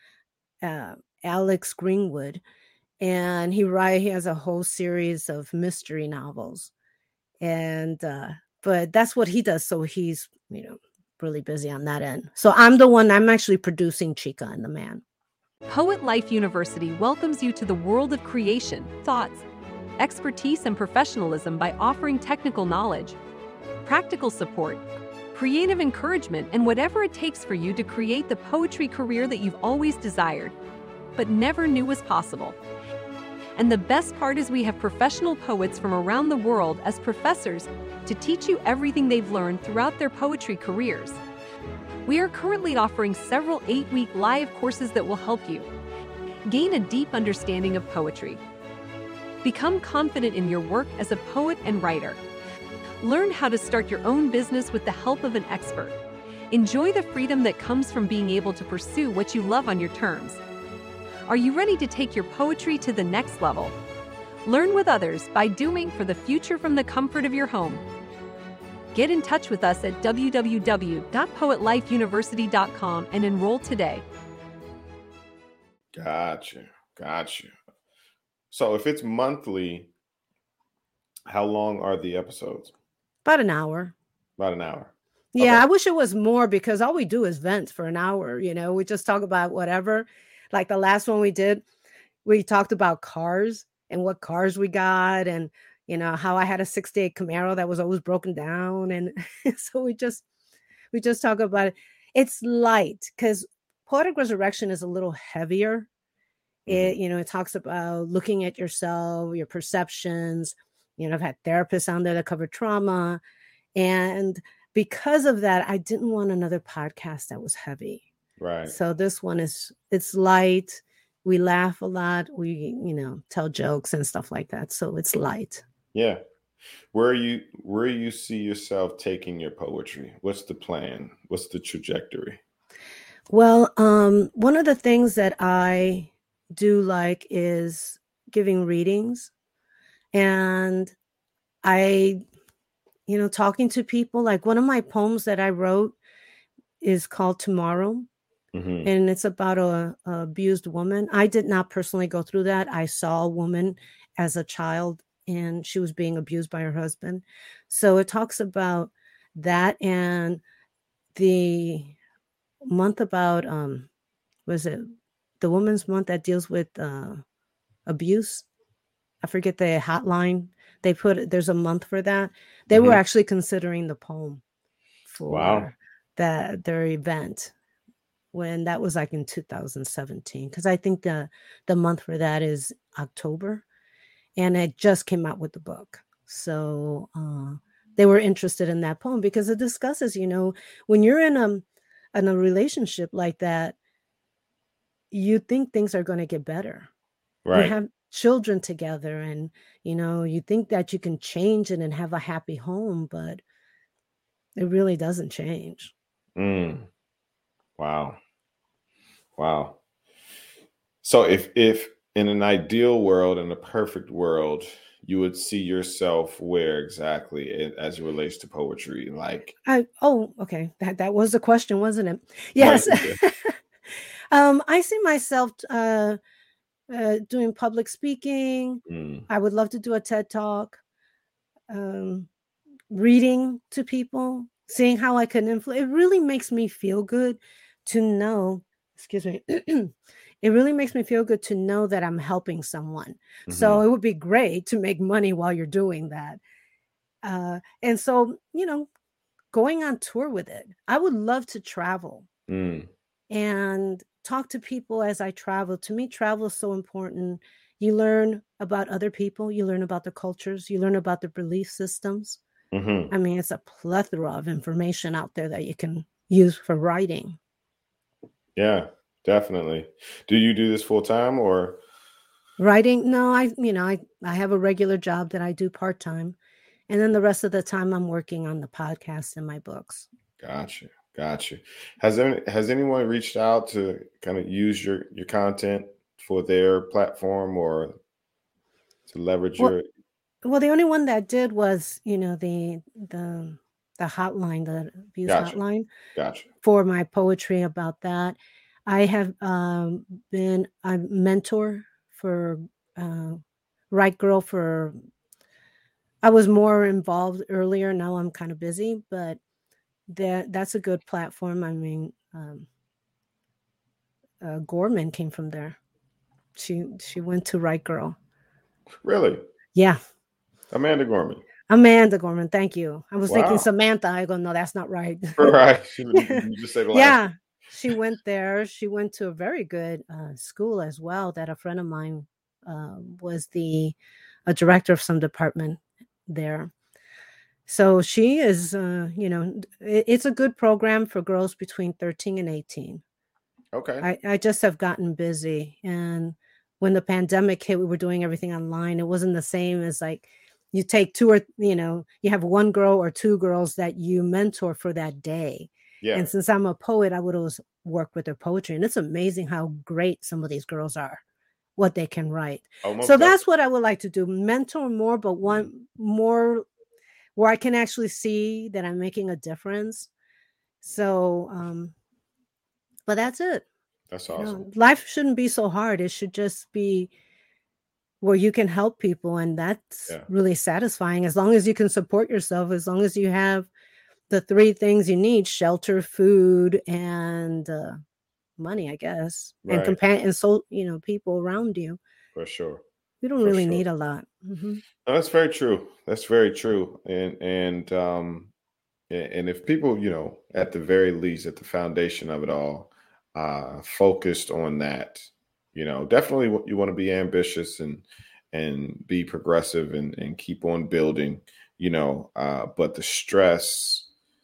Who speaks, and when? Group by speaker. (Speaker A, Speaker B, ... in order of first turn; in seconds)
Speaker A: 0.6-2.4, 3.0-6.7, 7.4-15.0, 83.2-83.9, 85.3-91.6, 92.2-100.2, 100.9-105.9, 106.7-113.2, 113.8-118.0, 118.7-125.6, 133.3-139.3, 140.1-140.9, 141.6-142.2, 143.1-145.9, 146.8-148.1, 148.8-160.4, 161.1-161.9, 162.6-163.9, 164.5-164.8, 165.4-167.2, 167.9-168.4, 169.2-174.4, 175.1-177.5, 178.3-183.6, 184.4-191.6, 192.1-193.8, 195.1-196.9, 197.5-203.4, 204.6-205.9, 219.6-223.5, 224.3-226.2, 226.9-230.8, 231.7-232.3, 232.9-246.4, 247.2-248.9, 249.5-252.3, 253.3-262.4, 263.1-267.4, 272.6-276.4, 276.9-280.1, 290.4-295.9, 296.6-304.9, 306.2-309.4, 310.1-312.7, 314.4-315.8, 316.6-318.1, 319.7-320.0, 321.7-325.5, 326.1-333.9, 334.5-336.7, 337.7-343.0, 344.0-361.2, 361.8-366.6, 367.4-370.1, 370.8-371.9, 373.1-373.6, 374.3-377.1, 378.2-383.7, 384.3-388.0, 388.6-392.0, 393.2-394.8
Speaker B: 15.7-19.4, 20.0-23.2, 23.8-24.8, 25.3-30.6, 31.1-32.6, 33.6-41.2, 42.0-45.7, 46.5-48.4, 49.4-52.2, 53.0-56.0, 56.5-60.4, 61.3-63.7, 64.4-67.8, 68.9-74.0
Speaker C: 75.9-77.5, 78.5-79.9, 81.3-82.7, 84.4-85.6, 106.7-107.0, 118.4-118.7, 125.9-126.2, 126.9-132.4, 148.5-148.9, 172.7-173.0, 175.3-175.7, 197.4-197.7, 206.3-206.9, 207.8-208.2, 209.4-209.8, 211.0-219.6, 222.6-223.2, 228.9-229.3, 243.5-243.8, 252.5-252.9, 262.7-263.1, 268.6-271.8, 280.4-288.0, 289.1-289.9, 295.2-295.6, 296.1-296.5, 319.0-319.4, 320.7-321.4, 323.3-323.7, 325.4-327.2, 343.7-344.1, 356.0-356.3, 362.8-363.4, 374.1-374.6, 389.6-390.0, 392.3-392.8, 393.4-393.8, 395.0-398.5, 399.1-414.1